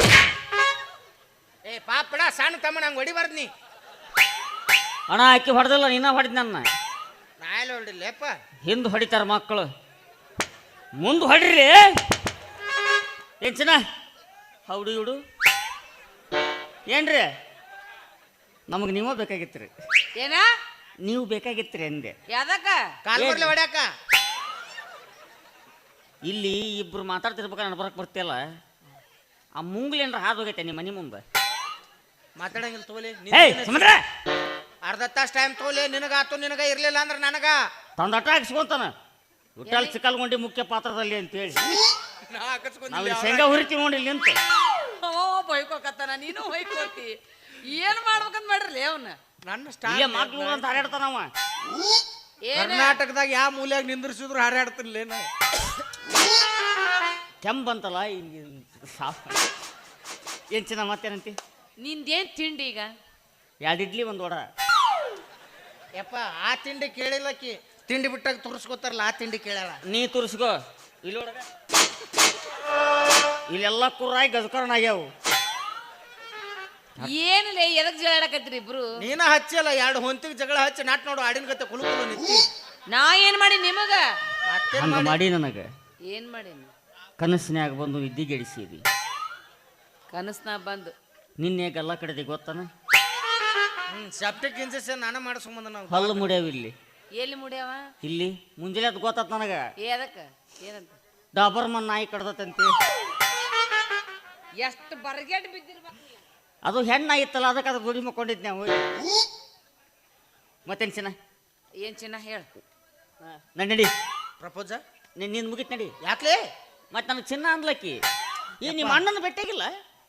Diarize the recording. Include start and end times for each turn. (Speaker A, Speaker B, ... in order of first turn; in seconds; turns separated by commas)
Speaker A: 1.6-3.5, Speaker B: 5.1-6.7, Speaker A: 7.4-8.3, Speaker B: 8.6-9.7, Speaker B: 11.0-11.9, Speaker B: 13.4-13.8, Speaker B: 14.7-15.2, Speaker B: 16.9-17.3, Speaker B: 18.7-19.7, Speaker C: 20.2-20.4, Speaker B: 21.0-22.2, Speaker C: 22.3-22.9, Speaker A: 23.1-23.9, Speaker B: 23.1-23.5, Speaker B: 26.2-28.4, Speaker B: 29.6-31.2, Speaker A: 32.4-34.0, Speaker B: 33.3-34.0, Speaker A: 34.8-37.7, Speaker B: 38.0-38.9, Speaker B: 39.6-41.7, Speaker C: 39.7-40.0, Speaker A: 42.3-43.7, Speaker B: 42.9-44.4, Speaker C: 44.9-49.2, Speaker A: 49.5-50.8, Speaker B: 49.9-51.3, Speaker C: 52.5-53.0, Speaker A: 52.6-55.3, Speaker B: 57.4-59.5, Speaker B: 60.5-61.4, Speaker C: 61.8-62.9, Speaker B: 63.6-64.5, Speaker A: 66.0-69.8, Speaker B: 69.9-71.5, Speaker B: 73.5-75.1, Speaker C: 77.0-78.9, Speaker A: 79.0-82.4, Speaker C: 82.9-84.0, Speaker A: 84.5-85.2, Speaker B: 84.7-85.7, Speaker C: 86.1-86.7, Speaker B: 87.2-88.8, Speaker C: 90.1-90.9, Speaker B: 91.4-92.7, Speaker A: 93.9-96.3, Speaker B: 95.9-96.8, Speaker C: 97.1-97.9, Speaker B: 98.0-99.6, Speaker C: 99.8-101.0, Speaker B: 101.3-102.8, Speaker C: 104.6-106.2, Speaker B: 106.7-108.9, Speaker B: 110.7-111.2, Speaker C: 111.8-112.5, Speaker B: 113.2-113.9, Speaker A: 114.4-114.8, Speaker B: 115.2-116.0, Speaker A: 116.0-116.4, Speaker B: 116.9-118.0, Speaker B: 118.6-119.8, Speaker A: 118.6-119.0